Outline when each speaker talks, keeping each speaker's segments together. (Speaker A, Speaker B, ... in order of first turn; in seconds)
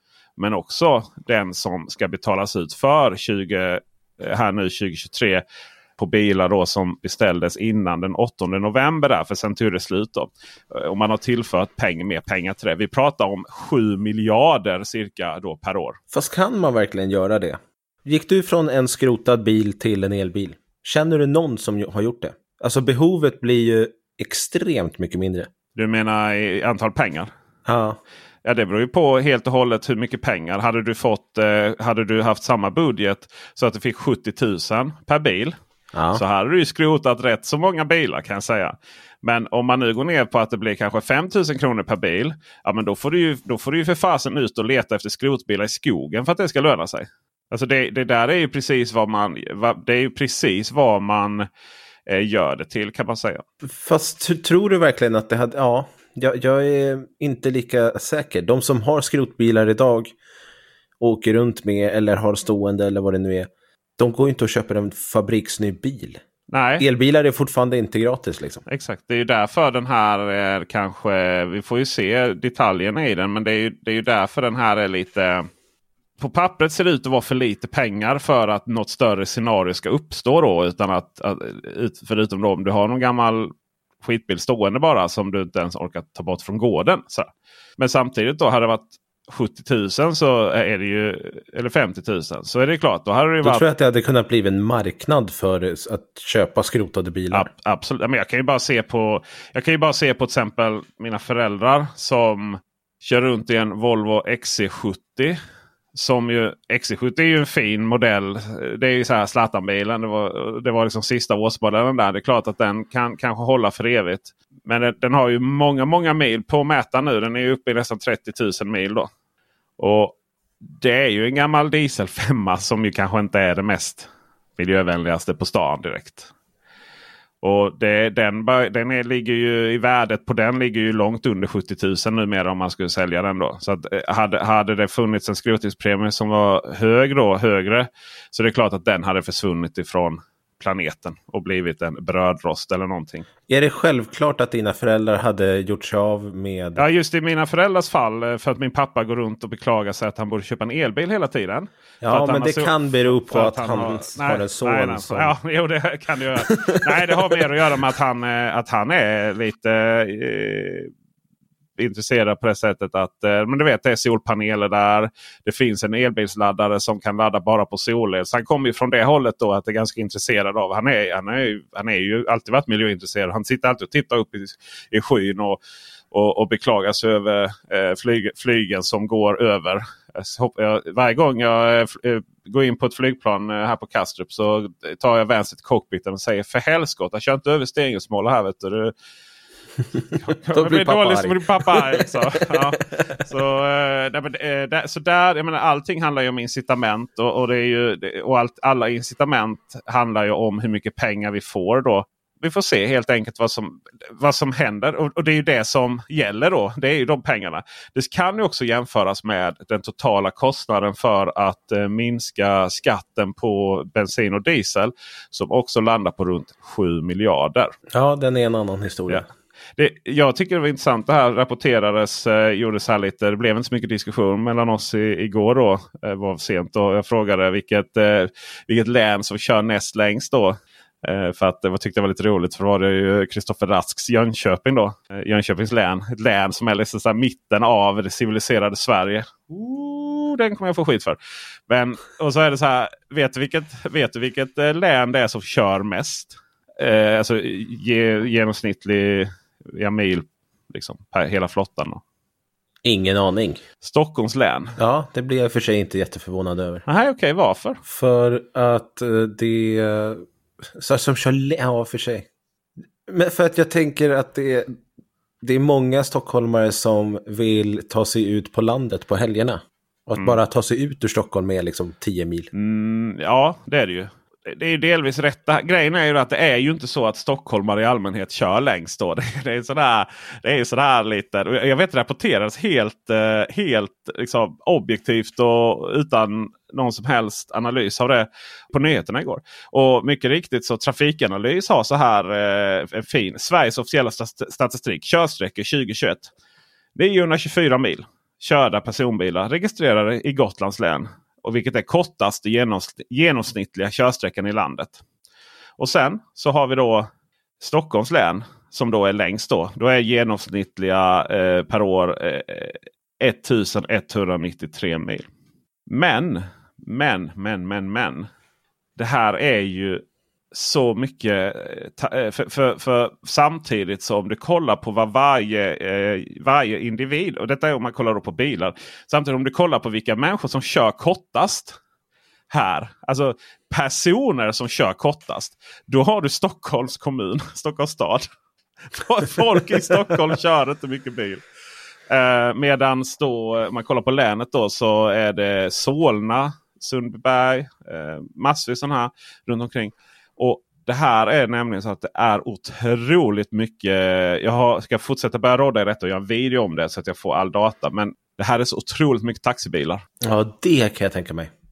Speaker A: 0.4-5.4, 6.0-16.0, 25.8-27.3, 28.4-35.5, 36.1-51.5, 52.1-53.4, 66.5-66.8, 68.7-75.5, 76.2-93.6, 97.3-105.4, 105.9-119.1, 119.8-126.3, 127.4-143.2, 146.8-160.9, 161.8-175.6, 176.1-188.9, 190.2-217.7, 219.8-241.2, 241.7-252.0, 253.8-254.8, 256.9-257.8, 272.5-296.3, 296.9-305.0, 305.8-315.3, 315.9-318.3, 319.0-331.8, 332.5-338.3, 338.9-341.4, 342.1-360.0
Speaker B: 16.1-25.5, 27.6-28.0, 35.9-36.2, 53.6-60.1, 61.0-66.2, 66.8-68.6, 93.4-97.5, 143.5-146.8, 152.0-155.3, 156.4-157.4, 190.5-192.8, 217.9-219.3, 252.8-253.6, 254.8-256.8, 257.8-262.3, 263.1-264.8, 265.4-272.5, 360.2-361.5